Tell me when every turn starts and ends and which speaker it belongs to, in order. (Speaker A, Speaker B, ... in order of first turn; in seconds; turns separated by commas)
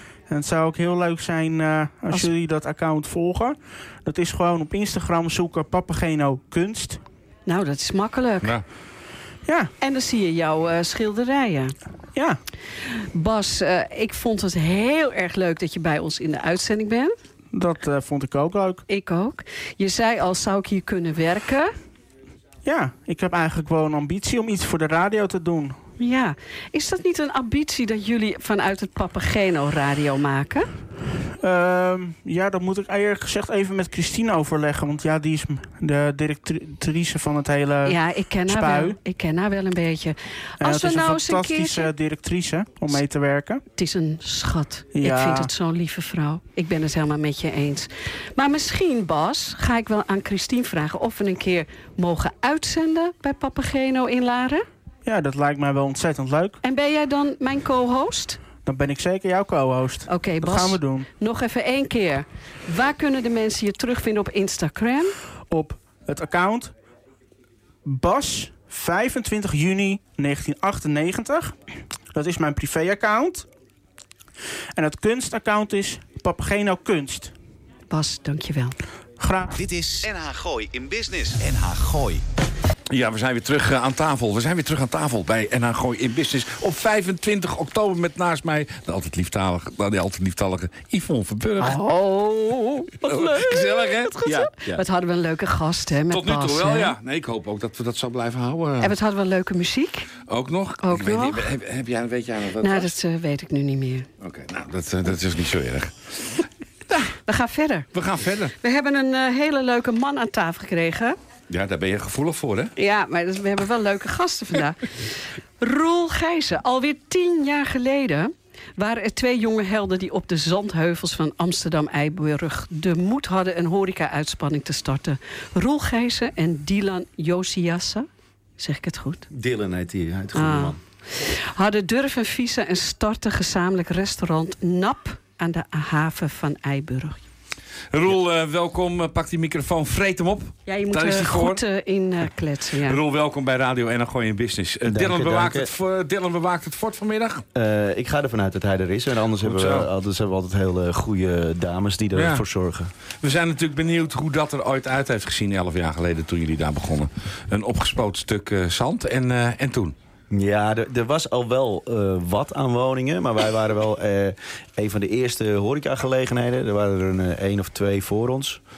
Speaker A: 0.3-7.0, Speaker B: 7.5-8.5, Speaker A: 9.4-9.7, Speaker B: 9.8-11.7, Speaker B: 13.0-17.1, Speaker A: 17.5-18.8, Speaker B: 18.9-21.7, Speaker A: 22.6-25.8, Speaker B: 26.0-30.7, Speaker A: 31.4-39.0, Speaker B: 37.8-41.9, Speaker A: 40.6-43.6, Speaker B: 43.8-54.6, Speaker A: 44.9-45.5, Speaker A: 55.0-56.6, Speaker B: 56.6-58.4, Speaker A: 58.6-61.1, Speaker B: 60.1-65.1, Speaker A: 65.5-66.7, Speaker A: 67.8-71.5, Speaker A: 72.1-73.5, Speaker A: 74.8-77.3, Speaker B: 77.9-78.8, Speaker A: 79.2-79.5, Speaker C: 79.5-82.2, Speaker D: 82.9-91.8, Speaker B: 91.6-96.9, Speaker D: 93.0-94.8, Speaker D: 96.1-98.9, Speaker B: 98.8-100.1, Speaker D: 100.3-102.9, Speaker B: 100.8-101.5, Speaker B: 102.6-104.1, Speaker D: 104.2-106.4, Speaker B: 107.0-107.9, Speaker D: 107.9-108.5, Speaker B: 108.6-111.2, Speaker D: 111.5-112.7, Speaker B: 112.8-114.9, Speaker B: 115.6-128.1, Speaker B: 128.6-129.2, Speaker E: 129.3-130.8, Speaker B: 130.3-137.2, Speaker D: 137.9-141.6, Speaker B: 140.7-143.0, Speaker D: 142.8-147.4, Speaker E: 144.9-145.7, Speaker E: 147.5-152.9, Speaker D: 149.4-149.9, Speaker D: 152.1-152.4, Speaker D: 153.2-159.9, Speaker E: 160.3-168.6